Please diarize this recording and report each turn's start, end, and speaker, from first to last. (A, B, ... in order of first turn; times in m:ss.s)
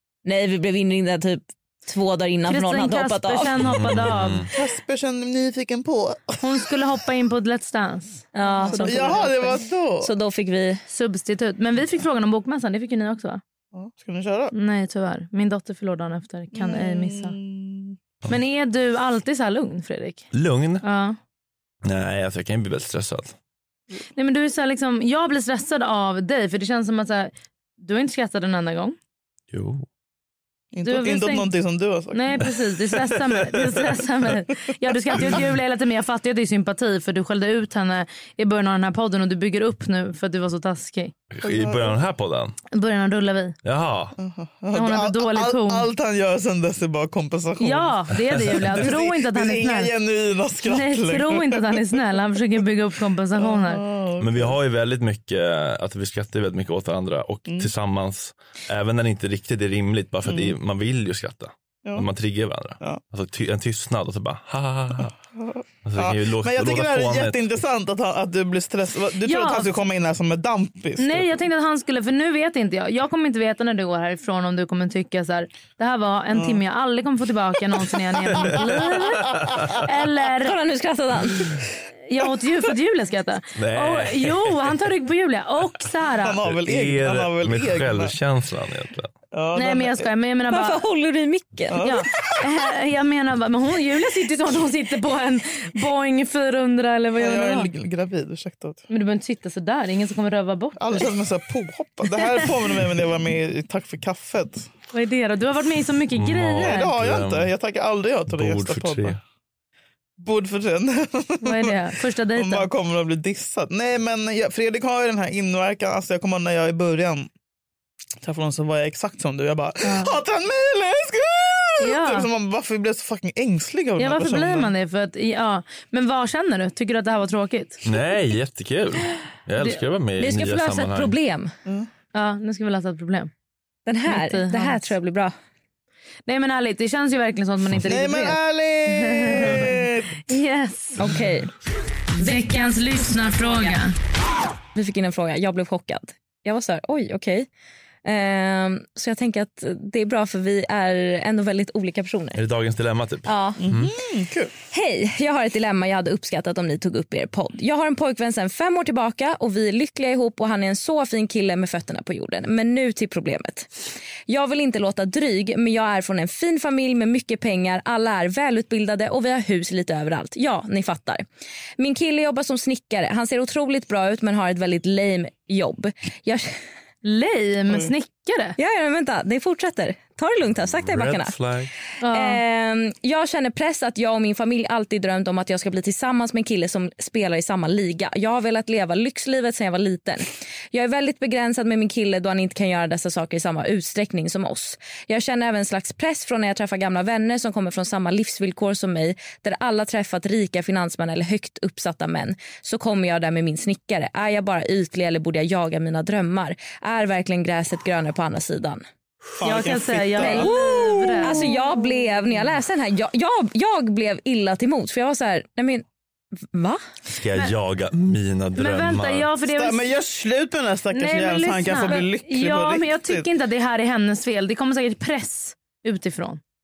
0:00.2-0:03.8 A
0:02.5-0:04.5 B
0:03.6-0:04.5 C
0:04.5-0:06.7 D
0:06.4-0:09.6 B
0:08.3-0:09.4 A
0:08.7-0:10.1 D
0:10.0-0:10.8 A
0:10.9-0:13.4 B
0:13.7-0:14.5 D
0:14.5-0:17.4 B
0:16.5-0:18.0 D
0:18.3-0:20.3 B
0:20.3-0:20.8 C
0:20.8-0:21.2 B
0:21.8-0:23.4 C
0:24.2-0:29.0 B
0:29.5-0:29.9 C
0:30.7-0:32.5 D
0:30.8-0:31.5 B
0:32.1-0:41.1 B
0:35.2-0:35.4 D
0:41.3-0:42.6 C
0:41.4-0:42.0 D
0:42.7-0:43.6 B
0:43.6-0:44.2 C
0:44.2-0:51.9 D
0:44.7-0:45.9 B
0:47.6-0:49.9 B
0:50.6-0:53.8 B
0:53.4-0:54.6 D
0:54.2-1:05.2 C
0:57.5-0:57.7 D
1:00.3-1:00.6 D
1:05.4-1:11.2 D
1:05.8-1:07.4 C
1:09.2-1:09.7 B
1:11.0-1:20.6 B
1:16.3-1:16.6 D
1:19.4-1:19.8 C
1:20.4-1:21.6 A
1:22.1-1:26.4 B
1:23.6-1:24.6 C
1:26.2-1:28.2 D
1:26.4-1:29.1 C
1:29.3-1:30.1 D
1:29.6-1:30.8 B
1:30.5-1:31.9 A
1:31.7-1:32.1 D
1:31.8-1:37.7 B
1:37.2-1:38.9 D
1:38.9-1:41.1 B
1:40.8-1:44.7 D
1:42.1-1:42.5 B
1:44.9-1:46.9 B
1:46.1-1:47.5 C
1:46.6-1:49.2 D
1:48.3-1:49.2 C
1:50.2-1:51.8 D
1:51.4-1:52.7 B
1:52.3-1:57.3 D
1:58.2-2:04.7 D
1:59.8-2:00.1 B
2:01.8-2:02.3 B
2:04.0-2:07.8 B
2:07.8-2:11.1 C
2:10.2-2:11.5 A
2:12.1-2:13.3 B
2:13.9-2:15.3 A
2:14.1-2:14.8 B
2:16.3-2:21.0 B
2:17.8-2:20.3 D
2:21.0-2:21.5 A
2:22.2-2:23.8 A
2:22.2-2:23.9 B
2:24.8-2:27.5 A
2:28.0-2:32.4 A
2:32.4-2:33.9 C
2:33.3-2:33.6 A
2:33.6-2:34.5 D
2:34.7-2:43.7 A
2:44.3-2:51.2 A
2:51.8-2:56.6 A
2:57.0-2:58.6 B
2:58.6-3:01.4 A
3:00.8-3:01.7 C
3:02.0-3:02.4 B
3:02.0-3:28.8 A
3:29.4-3:30.6 D
3:29.4-3:31.4 B
3:30.2-3:35.8 A
3:36.4-3:36.8 A
3:37.1-3:39.3 C
3:38.6-3:39.9 B
3:39.5-3:43.3 D
3:40.9-3:46.4 B